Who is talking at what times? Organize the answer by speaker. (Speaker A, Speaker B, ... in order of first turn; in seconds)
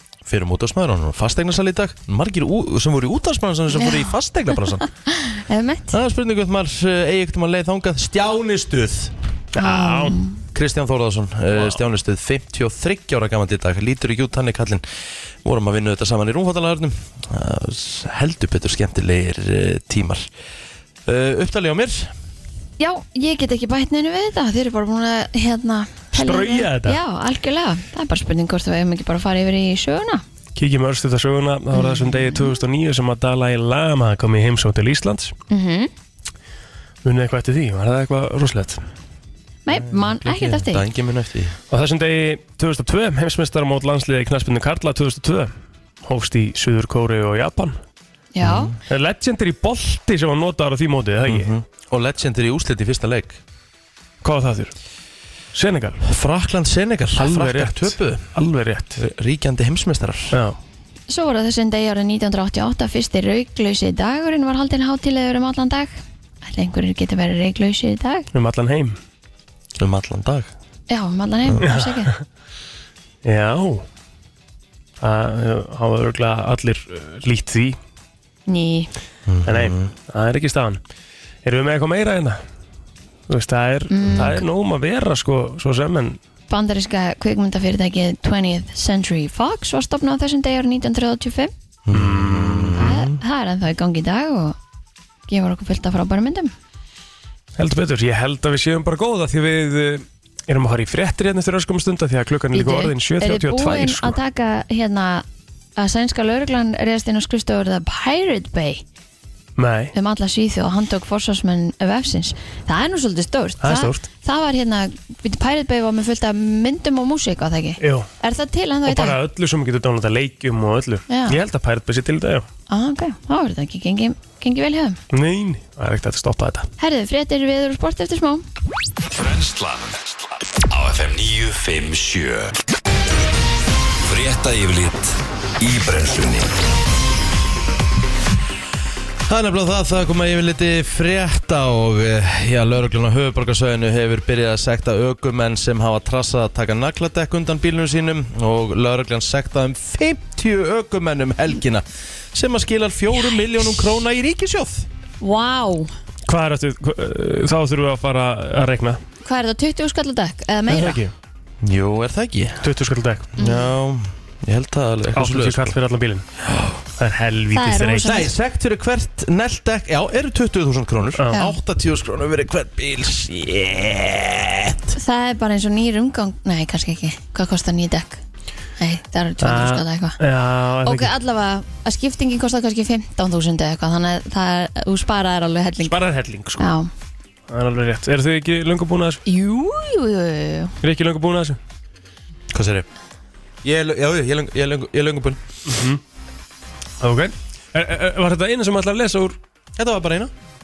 Speaker A: 0.3-4.8, 5.9-9.1, 10.6-14.8, 15.4-20.3, 21.1-22.1, 39.7-41.6, 48.4-48.8, 51.3-53.4, 56.0-58.3, 59.0-60.4, 69.8-70.5, 79.3-79.9, 84.1-84.4, 91.9-93.2, 139.3-154.9, 161.6-162.7, 163.4-165.8, 168.0-175.0, 192.5-192.9, 193.6-195.4, 199.8-200.3
Speaker B: 3.7-4.1, 4.8-6.0, 9.6-10.4, 22.8-30.2, 31.7-32.6, 35.5-35.9, 39.7-40.8, 48.3-48.7, 61.1-68.3, 70.9-72.1, 78.5-78.9, 83.9-84.4, 86.5-91.5, 92.8-94.6, 95.3-96.5, 102.5-105.2, 105.8-108.8, 109.9-119.2, 121.1-121.4, 122.7-125.0, 126.8-128.4, 155.2-155.9, 159.2-161.0, 163.4-163.7, 167.5-168.3, 174.9-178.2, 178.8-180.2, 180.8-186.0, 186.6-186.9, 189.3-190.7
Speaker C: 9.6-10.2, 26.1-27.0, 30.6-35.3, 37.0-38.8, 41.7-45.5, 46.0-47.8, 48.9-51.5, 54.2-54.7, 55.5-56.0, 57.1-59.0, 60.3-60.6, 68.3-69.0, 71.6-72.2, 73.2-73.8, 75.0-77.8, 79.5-80.8, 81.5-82.4, 83.3-86.2, 91.9-92.9, 97.6-104.2, 109.6-109.9, 113.6-114.1, 117.8-118.1, 118.9-122.5, 125.1-126.7, 156.3-159.0, 160.7-161.1, 162.6-163.3, 165.1-166.3, 167.0-168.2, 171.2-171.4, 179.4-181.1, 185.8-186.7, 187.5-189.2, 190.8-191.6, 195.7-196.0, 197.0-199.4
Speaker D: 129.1-132.6, 134.0-136.5